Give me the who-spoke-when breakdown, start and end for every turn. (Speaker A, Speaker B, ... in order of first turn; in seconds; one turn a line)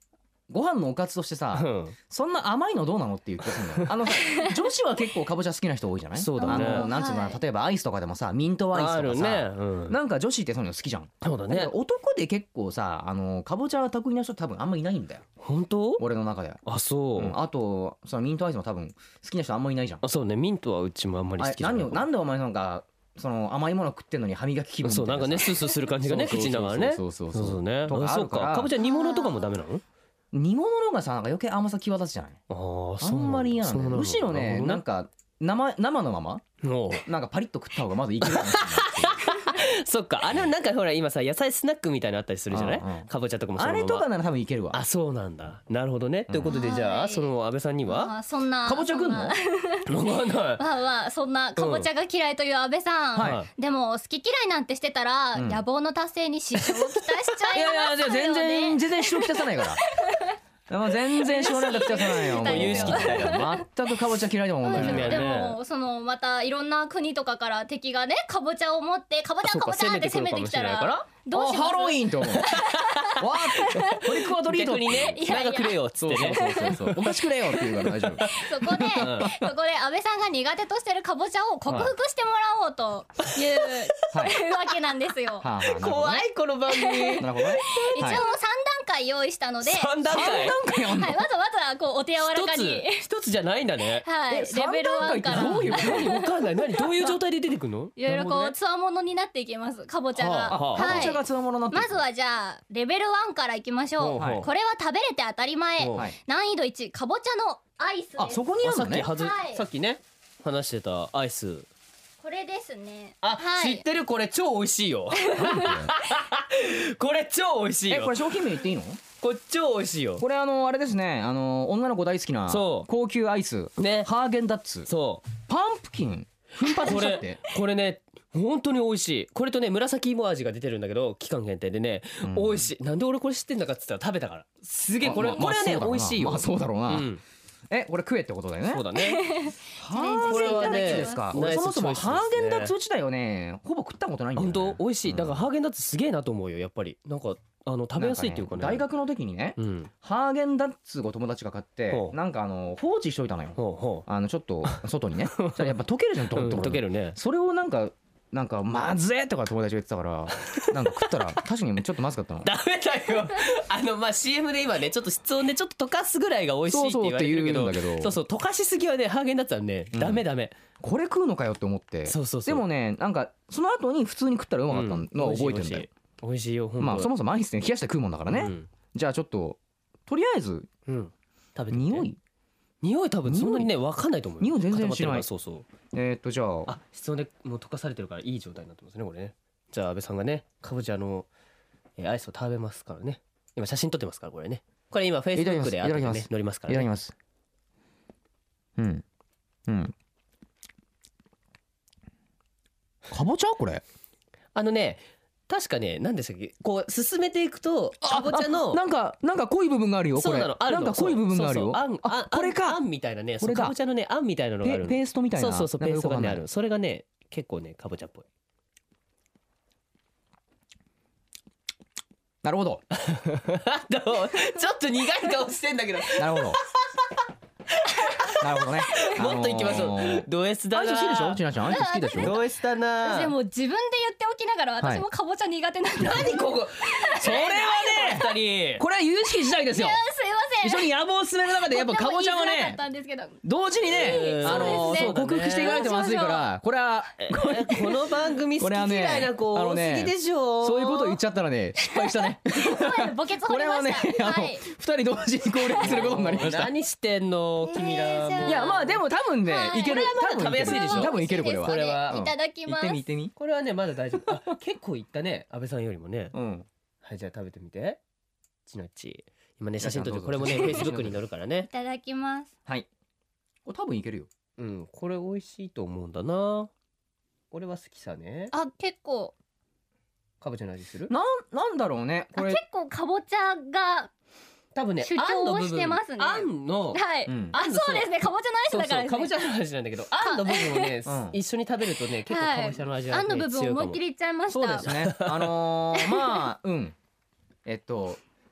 Speaker A: 0.5-15.3
Speaker B: 1.5-1.9
Speaker B: 3.5-3.9
Speaker B: 6.1-6.9
Speaker C: 6.4-7.4
Speaker B: 8.7-10.0
Speaker B: 11.2-11.7
Speaker B: 15.4-16.0
Speaker A: 16.0-16.6
Speaker B: 16.6-17.4
Speaker A: 17.1-20.0
Speaker B: 20.0-22.1
Speaker A: 21.4-28.7
Speaker B: 24.8-29.8
Speaker C: 28.8-29.4
Speaker A: 30.3-32.4
Speaker B: 32.5-34.8
Speaker A: 33.0-36.4
Speaker B: 36.6-37.1
Speaker A: 37.0-39.2
Speaker B: 38.2-44.0
Speaker A: 42.5-44.8
Speaker B: 44.7-48.1
Speaker A: 46.3-46.5
Speaker C: 46.5-47.3
Speaker C: 47.9-49.9
Speaker A: 48.6-49.4
Speaker B: 49.9-50.6
Speaker C: 50.6-60.4
Speaker B: 51.6-51.9
Speaker A: 53.1-53.4
Speaker B: 53.2-53.5
Speaker A: 55.3-55.6
Speaker A: 57.5-59.8
Speaker A: 60.7-65.4
Speaker C: 61.2-63.6
Speaker B: 62.4-63.4
Speaker C: 64.6-74.1
Speaker B: 64.7-65.6
Speaker B: 69.4-71.0
Speaker A: 71.3-72.6
Speaker B: 72.4-73.2
Speaker A: 73.1-75.4
Speaker B: 74.4-77.0
Speaker C: 75.0-77.1
Speaker A: 76.0-79.5
Speaker C: 77.7-85.5
Speaker B: 78.2-78.4
Speaker B: 79.0-79.3
Speaker B: 83.2-84.1
Speaker A: 84.1-84.4
Speaker A: 85.4-86.2
Speaker B: 85.7-88.2
Speaker C: 86.7-93.0
Speaker A: 87.2-88.2
Speaker B: 89.6-90.5
Speaker A: 90.1-91.2
Speaker B: 92.2-94.0
Speaker C: 94.0-96.3
Speaker A: 94.3-96.2
Speaker B: 95.3-98.5
Speaker C: 98.0-109.6
Speaker B: 100.2-101.1
Speaker A: 100.5-102.0
Speaker B: 104.0-104.5
Speaker A: 104.2-104.5
Speaker B: 105.8-106.1
Speaker A: 105.9-106.2
Speaker A: 108.2-109.1
Speaker B: 108.6-111.7
Speaker C: 112.2-113.8
Speaker B: 113.2-118.2
Speaker C: 115.3-115.7
Speaker A: 115.3-115.9
Speaker A: 117.9-119.0
Speaker B: 119.2-120.2
Speaker A: 120.2-127.4
Speaker B: 122.5-122.9
Speaker B: 123.8-124.1
Speaker B: 124.9-125.2
Speaker B: 126.8-137.2
Speaker A: 132.2-132.7
Speaker A: 135.0-137.1
Speaker A: 137.7-138.8
Speaker B: 138.7-139.3
Speaker C: 139.0-141.3
Speaker A: 139.8-145.5
Speaker B: 140.2-142.7
Speaker B: 144.3-148.8
Speaker A: 148.0-162.5
Speaker B: 149.6-149.9
Speaker B: 151.9-152.1
Speaker B: 153.6-154.1
Speaker B: 154.6-155.7
Speaker B: 156.3-157.2
Speaker B: 160.4-161.4
Speaker B: 162.4-170.5
Speaker A: 166.7-168.2
Speaker A: 169.9-170.2
Speaker A: 170.8-175.9
Speaker B: 172.1-172.6
Speaker B: 174.7-177.1
Speaker A: 176.8-180.7
Speaker B: 178.3-178.7
Speaker B: 180.8-182.1
Speaker A: 181.7-182.2
Speaker B: 182.8-185.7
Speaker A: 183.3-183.7
Speaker A: 184.4-185.3
Speaker A: 185.9-186.7
Speaker B: 186.7-191.3
Speaker B: 192.0-196.9
Speaker A: 195.3-197.1
Speaker A: 198.8-199.0
Speaker A: 199.7-199.9
Speaker A: 203.1-203.8
Speaker B: 204.5-208.8
Speaker A: 208.0-212.8
Speaker B: 210.2-218.2
Speaker A: 213.4-213.8
Speaker A: 214.6-216.4
Speaker A: 222.4-222.8
Speaker B: 222.9-227.0
Speaker A: 226.2-226.6
Speaker B: 227.8-231.4
Speaker A: 228.4-232.4
Speaker C: 231.6-232.4
Speaker B: 232.2-233.3
Speaker C: 233.0-238.2
Speaker B: 236.0-238.8
Speaker A: 237.2-240.0
Speaker C: 239.5-240.9
Speaker A: 240.6-242.8
Speaker C: 241.7-243.4
Speaker A: 243.4-256.7
Speaker B: 243.8-245.9
Speaker C: 244.0-246.5
Speaker B: 247.2-251.1
Speaker C: 251.9-254.7
Speaker B: 255.8-258.9
Speaker C: 257.6-258.9
Speaker A: 258.4-263.3
Speaker C: 259.4-263.1
Speaker B: 259.7-262.2
Speaker B: 263.4-266.3
Speaker A: 266.3-266.7
Speaker B: 267.0-268.0
Speaker B: 268.6-271.7
Speaker A: 269.8-271.2
Speaker C: 271.7-272.5
Speaker A: 273.6-274.3
Speaker B: 274.6-276.7
Speaker B: 277.5-278.5
Speaker C: 278.5-279.3
Speaker B: 280.4-281.1
Speaker A: 281.1-282.6
Speaker C: 282.3-284.1
Speaker B: 284.7-288.1
Speaker C: 285.1-289.3
Speaker A: 287.3-287.6
Speaker B: 288.7-294.0
Speaker C: 290.2-290.9
Speaker A: 291.1-291.4
Speaker C: 292.3-294.9
Speaker A: 294.5-296.9
Speaker B: 294.8-295.5
Speaker C: 295.9-296.4
Speaker A: 297.6-298.2